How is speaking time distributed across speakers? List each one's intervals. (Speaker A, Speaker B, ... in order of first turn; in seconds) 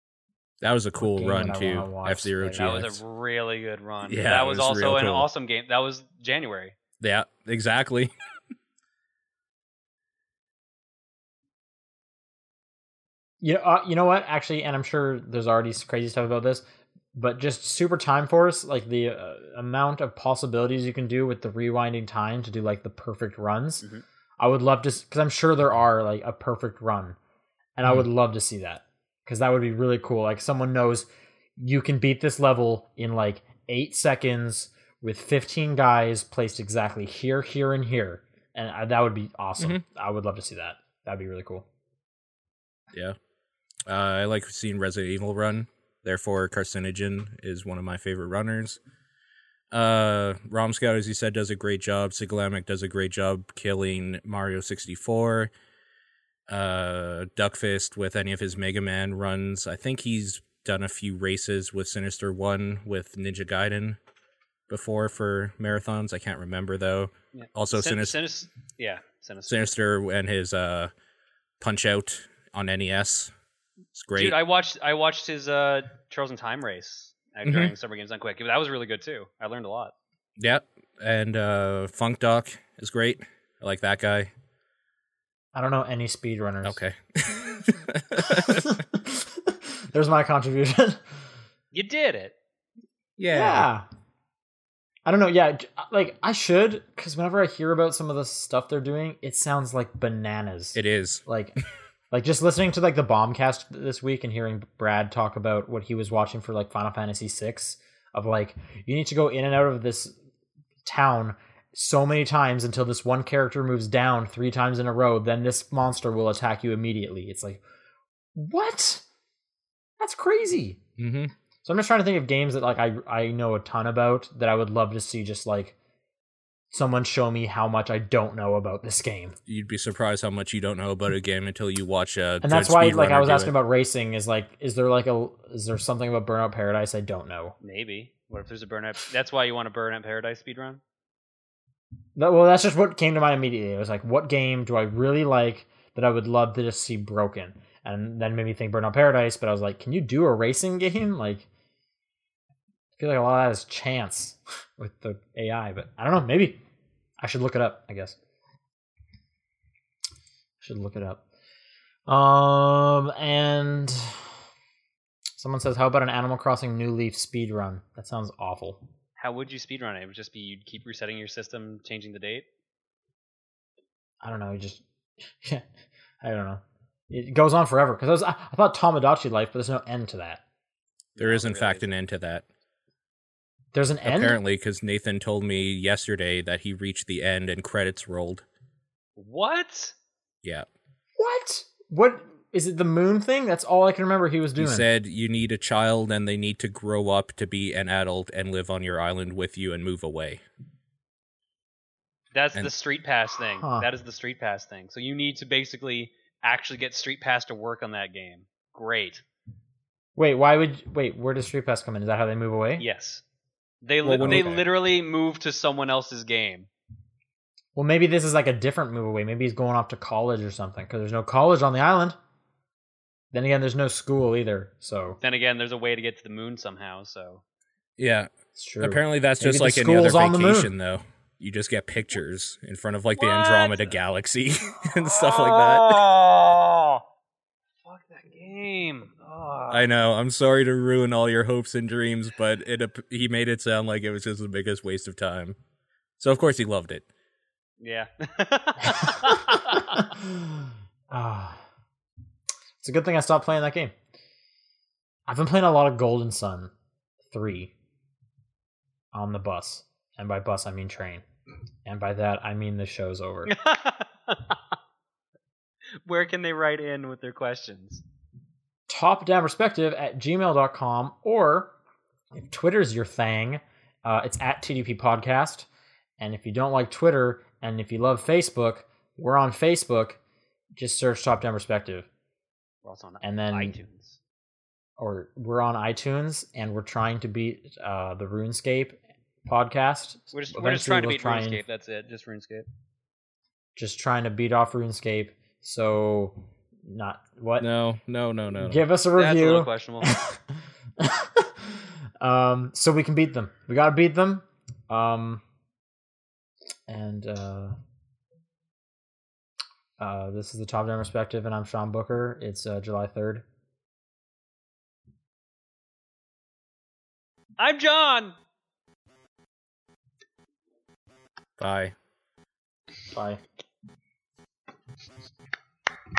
Speaker A: 0.6-3.0, 4.0-5.3, 7.0-8.1, 43.9-48.8, 49.7-55.5, 56.5-64.0, 64.7-68.2, 69.5-70.9, 71.6-73.3, 73.9-74.4, 77.5-77.7, 80.4-84.3, 86.6-88.8, 93.2-93.7, 100.8-101.2, 121.0-121.3, 129.5-133.5, 181.2-182.4, 184.0-188.4, 194.6-200.4, 214.0-214.7, 228.0-228.3, 228.8-236.0, 239.7-245.6, 246.2-247.0, 297.6-298.8, 321.6-321.9
Speaker B: 1.0-2.8, 13.4-23.9, 24.4-27.2, 27.8-41.6, 85.5-86.8, 88.2-91.0, 93.3-93.8, 95.0-101.6, 102.1-110.2, 110.8-117.6, 118.3-119.0, 120.0-120.8, 121.6-125.7, 126.7-129.3, 132.4-137.5, 142.1-151.5, 153.0-156.6, 157.2-158.2, 160.6-161.2, 162.1-164.3, 165.4-168.8, 174.2-175.7, 176.2-180.4, 183.7-184.4, 191.2-194.8, 203.6-203.9, 210.2-212.8, 214.2-214.5, 217.7-222.2, 223.3-225.2, 228.5-230.7, 249.5-251.6, 252.8-253.9, 255.3-256.7, 257.2-257.7, 259.1-261.2, 261.8-263.5, 268.9-271.7, 272.3-275.7, 276.2-280.2, 280.8-282.1, 283.2-283.7, 285.0-291.6, 293.8-297.7, 298.5-305.4, 306.9-307.8, 310.0-313.4, 323.1-323.4
Speaker C: 2.5-6.7, 67.3-69.6, 74.1-79.9, 91.7-92.3, 137.6-140.8, 169.2-172.4, 181.2-181.9, 189.2-189.9, 202.3-209.2, 212.8-213.2, 213.8-216.7, 225.2-227.4, 233.2-234.0, 235.0-237.0, 237.8-239.8, 247.8-250.1, 263.5-264.6, 266.1-268.0, 282.8-284.2, 290.3-292.7, 299.1-300.1, 317.6-318.4